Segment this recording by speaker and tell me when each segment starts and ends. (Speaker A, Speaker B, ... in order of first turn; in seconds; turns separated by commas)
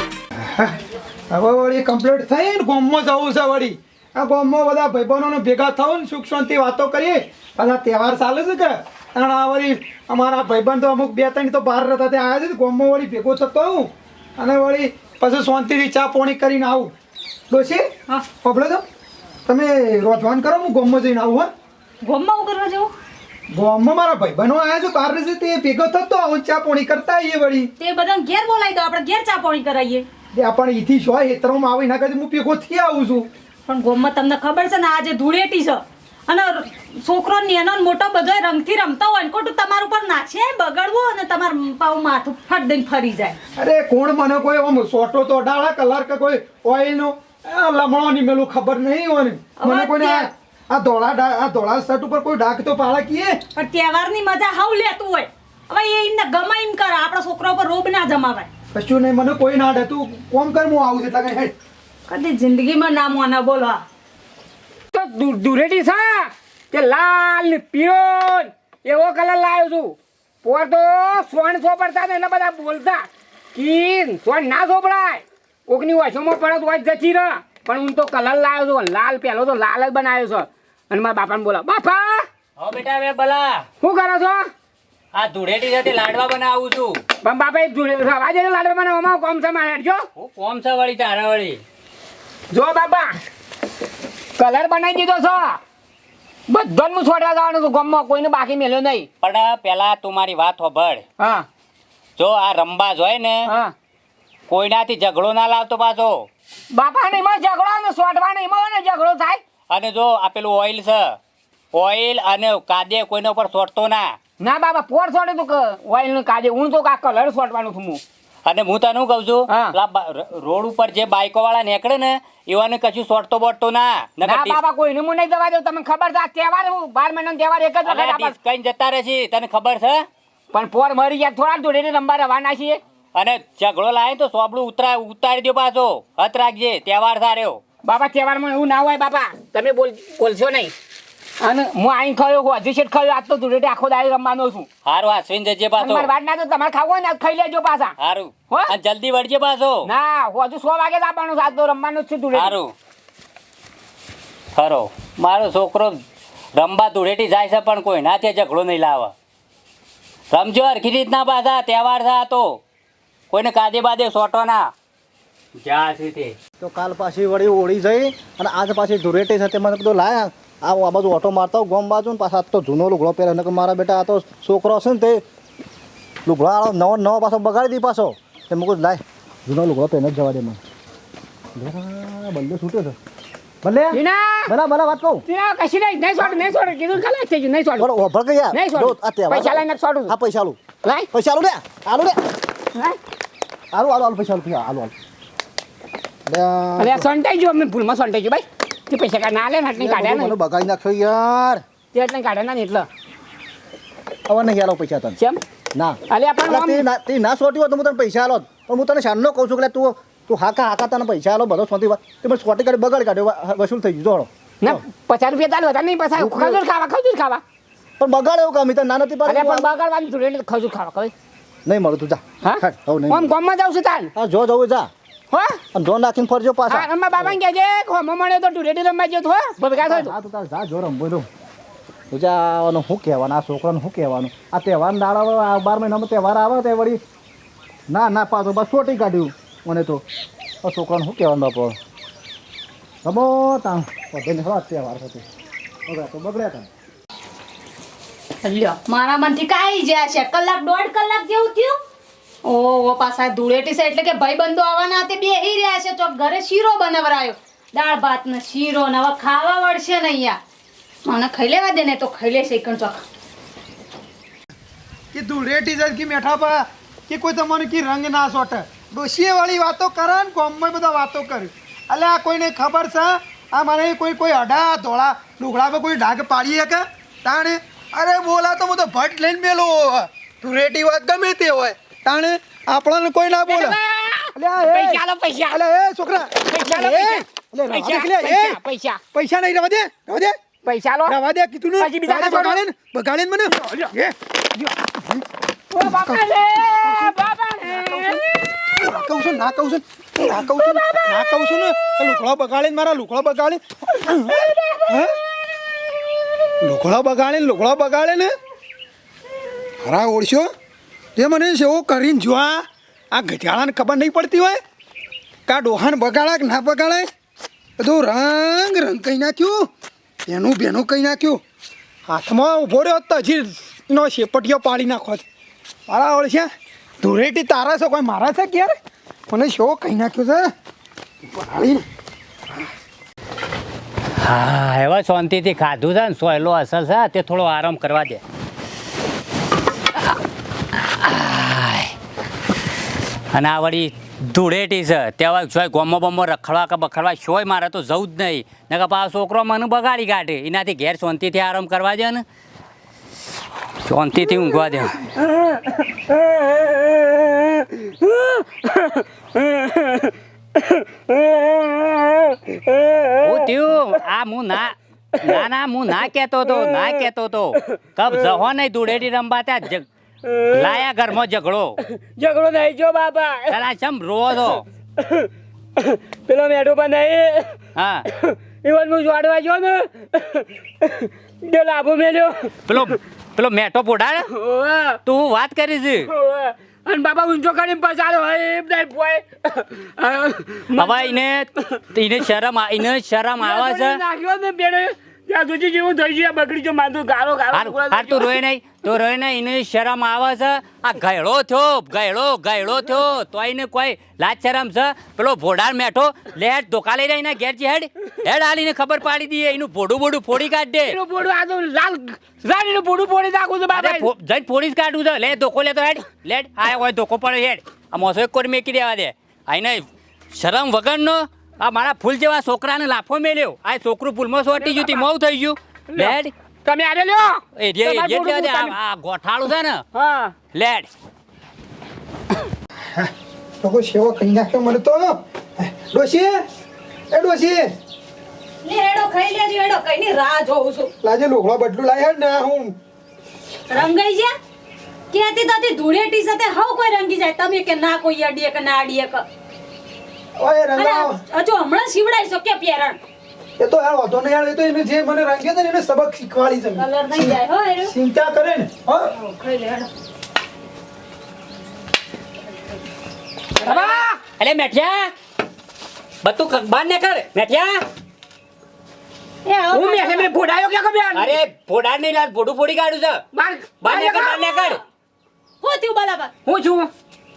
Speaker A: 1.3-16.9, Speaker A: 17.5-18.8, Speaker A: 19.4-21.5, Speaker B: 22.0-22.9, Speaker A: 23.5-27.7, Speaker B: 27.8-30.1, Speaker A: 30.3-33.3, Speaker B: 33.7-43.4, Speaker A: 43.5-53.4, Speaker B: 49.6-50.3, Speaker B: 53.5-58.5, Speaker A: 58.7-61.5, Speaker B: 62.1-63.8, Speaker C: 64.9-82.2, Speaker D: 82.6-83.6, Speaker C: 83.8-84.5, Speaker D: 85.1-87.0, Speaker C: 87.2-90.1, Speaker D: 90.1-91.6, Speaker C: 92.5-93.2, Speaker C: 94.4-95.6, Speaker C: 96.5-99.1, Speaker D: 99.2-101.0, Speaker C: 101.2-101.5, Speaker D: 102.2-103.4, Speaker C: 103.5-103.7, Speaker D: 104.5-106.3, Speaker C: 106.7-109.4, Speaker D: 109.7-111.2, Speaker D: 111.7-114.1, Speaker C: 114.4-118.0, Speaker D: 118.5-124.6, Speaker C: 119.5-119.7, Speaker C: 124.2-128.3, Speaker D: 127.8-130.0, Speaker C: 130.5-132.8, Speaker D: 133.1-137.6, Speaker C: 137.8-140.7, Speaker C: 141.4-144.7, Speaker D: 144.8-146.1, Speaker C: 145.8-147.9, Speaker D: 148.0-149.9, Speaker C: 149.8-152.6, Speaker D: 152.3-152.7, Speaker D: 154.5-156.0, Speaker D: 156.6-159.1, Speaker D: 160.3-162.6, Speaker D: 163.3-164.6, Speaker D: 165.6-166.3, Speaker E: 166.6-175.2, Speaker E: 176.2-180.6, Speaker E: 181.6-182.9, Speaker E: 183.6-185.2, Speaker C: 183.9-184.5, Speaker C: 185.3-187.9, Speaker E: 187.8-190.6, Speaker C: 188.5-190.1, Speaker C: 190.8-191.1, Speaker E: 191.1-192.2, Speaker E: 193.7-194.9, Speaker E: 196.3-197.1, Speaker C: 196.8-200.3, Speaker E: 199.8-201.6, Speaker C: 201.9-202.9, Speaker E: 204.3-205.2, Speaker E: 205.7-214.8, Speaker C: 206.1-206.8, Speaker C: 214.6-217.4, Speaker E: 216.2-216.6, Speaker E: 218.0-219.7, Speaker C: 219.2-221.1, Speaker E: 221.7-223.3, Speaker C: 222.4-224.1, Speaker E: 224.1-224.9, Speaker C: 225.3-225.6, Speaker E: 225.7-227.4, Speaker C: 226.7-230.1, Speaker E: 229.8-231.3, Speaker E: 232.1-237.0, Speaker E: 237.9-240.0, Speaker E: 240.6-241.8, Speaker E: 243.0-245.2, Speaker E: 245.9-246.7, Speaker B: 248.4-251.8, Speaker B: 252.4-260.4, Speaker B: 261.1-263.0, Speaker A: 265.1-283.8, Speaker C: 283.5-285.6, Speaker A: 284.4-288.6, Speaker C: 286.4-289.0, Speaker A: 289.1-290.3, Speaker C: 290.6-291.1, Speaker A: 291.1-295.2, Speaker C: 291.8-292.6, Speaker C: 293.6-293.9, Speaker C: 295.7-298.2, Speaker A: 295.8-297.1, Speaker A: 297.7-298.2, Speaker A: 298.7-305.1, Speaker C: 300.2-301.1, Speaker C: 304.0-305.0, Speaker A: 306.6-308.3, Speaker A: 309.8-310.5, Speaker A: 311.1-314.6, Speaker A: 315.5-317.1, Speaker A: 317.8-319.7, Speaker A: 320.3-321.4, Speaker A: 322.1-325.2, Speaker A: 325.9-326.5, Speaker A: 327.0-328.7, Speaker A: 329.3-330.5, Speaker A: 331.3-331.8, Speaker D: 334.2-338.2, Speaker D: 340.8-341.9, Speaker D: 343.3-352.2, Speaker D: 353.8-355.1, Speaker C: 355.2-363.3, Speaker D: 363.2-369.9, Speaker C: 366.5-366.8, Speaker C: 370.2-370.8, Speaker D: 370.5-371.8, Speaker C: 371.9-373.6, Speaker D: 373.5-374.6, Speaker C: 374.5-377.6, Speaker D: 377.7-378.0, Speaker C: 378.1-382.7, Speaker D: 382.7-384.2, Speaker C: 384.3-385.0, Speaker D: 385.0-386.1, Speaker C: 386.1-391.2, Speaker D: 390.7-394.0, Speaker C: 393.4-398.3, Speaker D: 397.5-410.9, Speaker C: 410.9-414.1, Speaker D: 413.7-426.3, Speaker C: 424.6-425.0, Speaker C: 425.9-428.7, Speaker D: 427.6-429.8, Speaker C: 429.9-430.3, Speaker D: 430.5-430.9, Speaker A: 433.6-436.4, Speaker A: 437.1-437.7, Speaker B: 438.6-440.9, Speaker A: 441.0-442.8, Speaker B: 443.7-444.3, Speaker B: 445.1-449.2, Speaker A: 450.4-451.1, Speaker B: 450.8-453.0, Speaker A: 453.6-459.1, Speaker B: 456.8-457.9, Speaker B: 459.1-459.9, Speaker C: 463.6-464.2, Speaker D: 463.6-465.1, Speaker D: 466.2-467.8, Speaker B: 469.4-470.3, Speaker C: 469.7-471.4, Speaker D: 471.1-473.2, Speaker C: 473.3-474.0, Speaker D: 473.8-474.8, Speaker B: 473.9-474.8, Speaker B: 475.6-476.3, Speaker C: 476.4-476.9